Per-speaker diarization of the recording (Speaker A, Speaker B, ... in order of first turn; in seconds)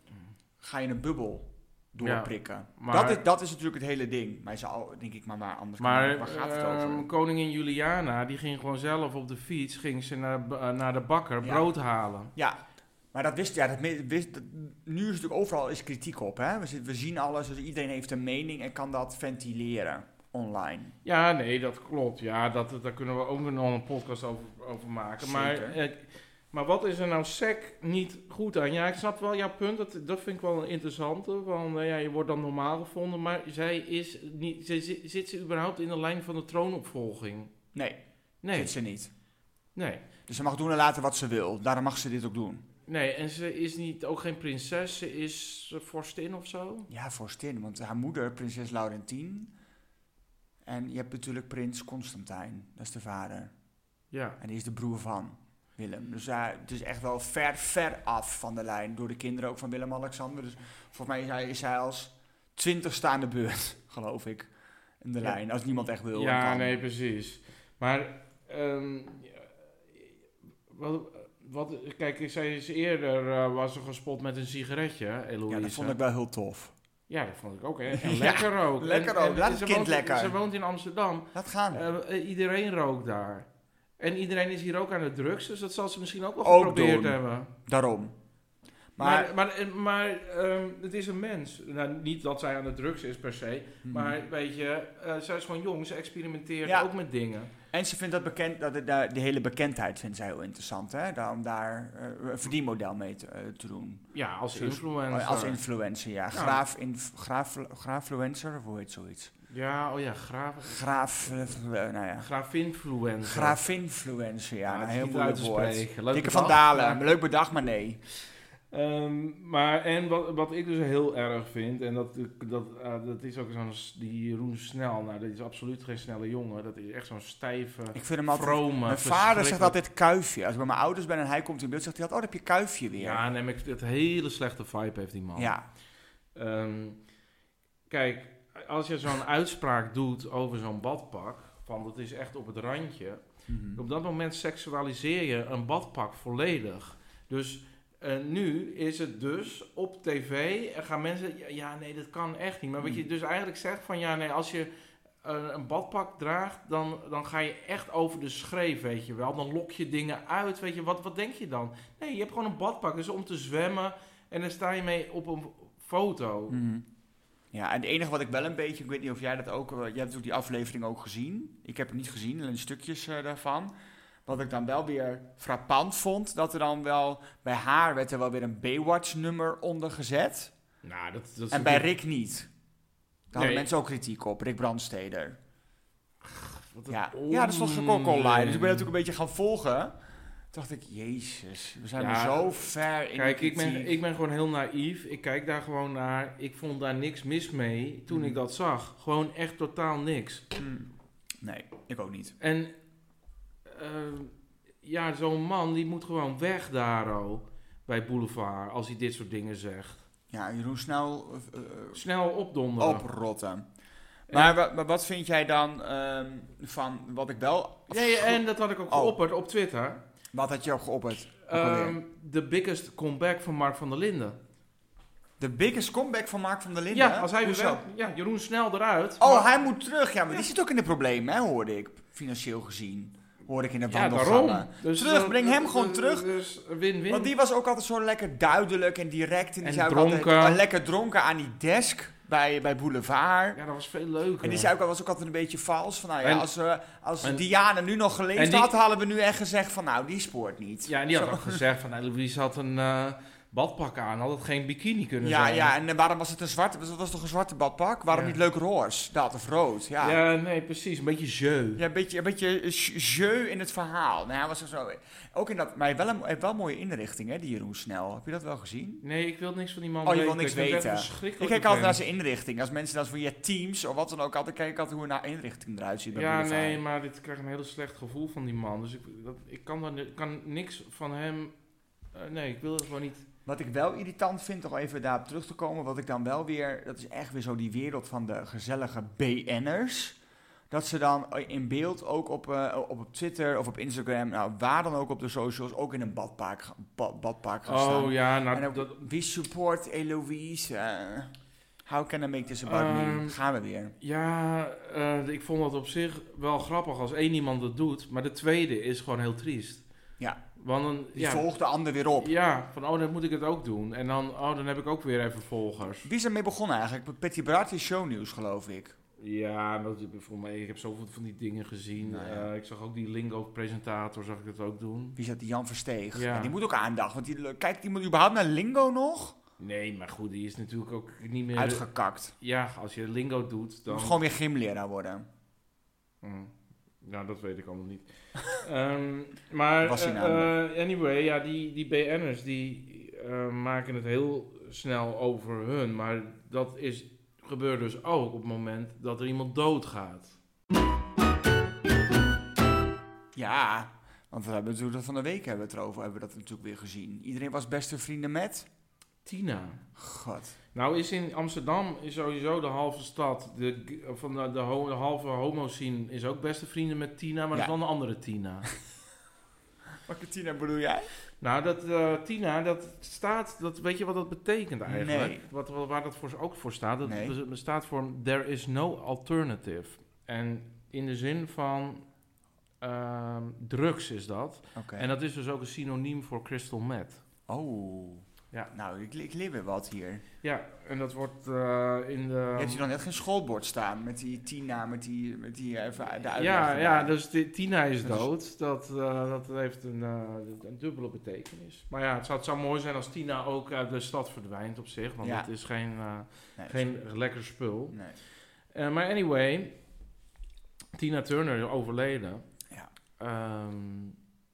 Speaker A: 0.6-7.1, 12.3-12.6, 13.1-20.9, 25.2-25.8, 37.7-38.0, 38.5-39.1, 40.3-42.6, 46.9-49.5, 50.6-53.5, 54.4-66.8, 75.5-76.7, 77.9-80.3, 81.3-81.8, 86.4-88.2, 89.0-89.3, 93.8-94.2, 97.7-109.3, 110.7-112.3, 113.2-118.0, 128.0-133.2, 135.4-135.7, 143.5-143.8, 166.5-166.9, 167.5-173.7, 174.3-180.5, 181.5-182.5, 183.3-185.4, 186.9-190.0, 190.5-194.0, 198.1-198.4, 200.6-200.9, 201.4-202.3, 210.3-212.0, 212.8-213.7, 214.3-219.2, 220.3-222.0, 225.4-227.8, 229.2-236.3, 237.1-243.6, 244.4-251.6, 255.2-260.2, 261.8-269.0, 270.1-276.8, 283.5-290.2, 290.7-301.3, 301.9-303.9, 311.1-312.3, 316.0-318.9, 322.0-322.5, 325.2-329.4, 331.6-332.3, 333.9-335.3, 339.8-340.5, 353.4-358.7, 360.0-360.6, 370.1-371.1, 374.9-375.4, 377.0-377.4, 384.8-385.1, 387.5-390.2, 392.6-397.1, 398.0-398.3, 405.2-405.5, 406.6-406.9, 407.9-408.2
Speaker B: 2.0-3.2, 5.8-12.3, 21.1-37.5, 38.4-38.7, 39.8-40.1, 42.9-46.9, 54.1-54.4, 66.1-69.5, 70.7-76.0, 77.1-83.5, 84.0-87.5, 89.0-97.5, 104.1-105.6, 106.3-106.6, 109.5-110.8, 112.2-113.6, 114.7-117.1, 118.7-129.8, 133.0-135.6, 136.3-137.0, 137.9-154.7, 155.2-166.6, 180.8-181.9, 183.3-183.7, 186.2-188.9, 192.0-192.6, 193.1-200.4, 202.4-202.7, 203.7-210.0, 211.9-213.1, 214.3-214.6, 217.9-220.0, 221.5-224.4, 226.9-229.5, 233.9-237.3, 239.6-240.6, 243.6-244.7, 246.2-246.5, 248.3-248.7, 250.8-255.7, 258.1-258.4, 260.0-261.8, 269.0-272.0, 276.1-281.6, 282.1-283.3, 297.7-299.0, 302.6-303.4, 304.0-309.9, 310.6-311.4, 312.2-316.1, 319.2-325.2, 326.1-326.5, 329.6-331.9, 332.4-334.2, 336.2-350.4, 359.2-359.8, 360.8-368.7, 371.4-382.0, 382.8-387.2, 390.4-392.8, 396.3-408.0, 408.7-409.8, 411.0-412.4, 413.2-414.2